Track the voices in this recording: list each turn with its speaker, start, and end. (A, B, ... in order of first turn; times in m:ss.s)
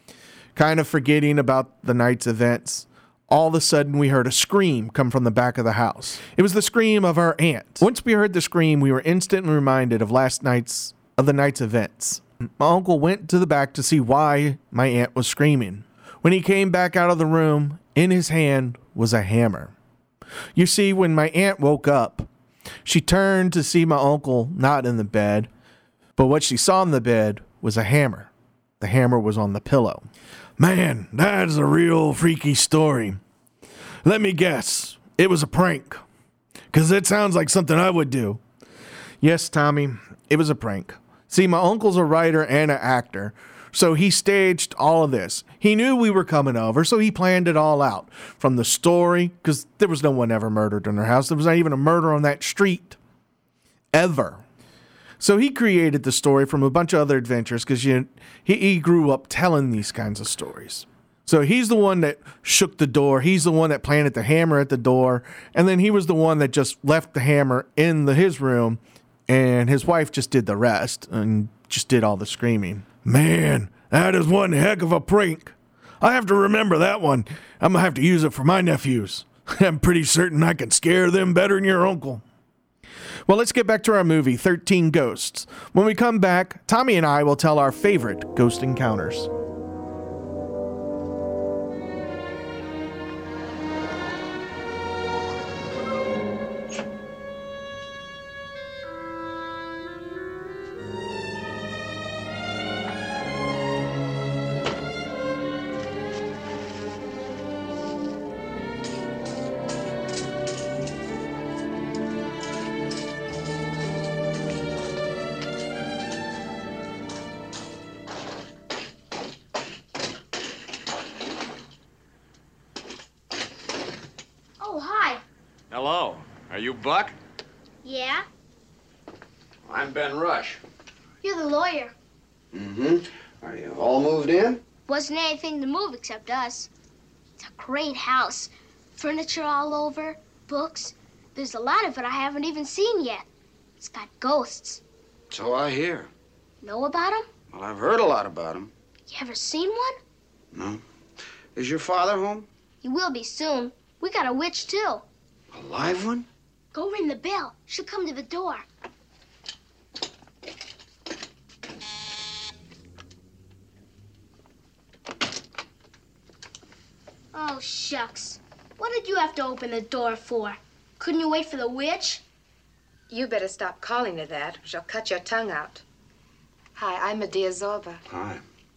0:00.6-0:19.7 A
0:20.6-0:22.3 A
0:22.8-0:25.5 A
0:26.2-0:30.1 A
0:30.6-0:33.2 A
0:34.0-0:36.0 A
0:36.7-0:38.4 A
0:39.2-0:53.0 A
0:53.9-0:54.4 A
0:55.2-1:22.2 A
1:23.3-1:29.3 A
2:04.6-2:05.2 B
2:05.7-2:07.2 C
2:07.8-2:08.3 B
2:09.7-2:10.6 C
2:11.2-2:11.9 B
2:12.5-2:14.6 C
2:14.9-2:16.7 B
2:17.4-2:23.3 B
2:23.8-2:24.8 B
2:25.3-2:26.1 C
2:26.6-2:27.3 B
2:27.5-2:28.7 C
2:29.1-2:30.0 B
2:30.5-2:30.8 C
2:31.5-2:32.5 C
2:32.8-2:35.1 B
2:35.5-2:36.3 C
2:36.7-2:38.7 B
2:47.3-2:52.2 B
2:53.1-2:55.8 D
2:56.8-2:58.0 D
2:58.1-2:58.4 C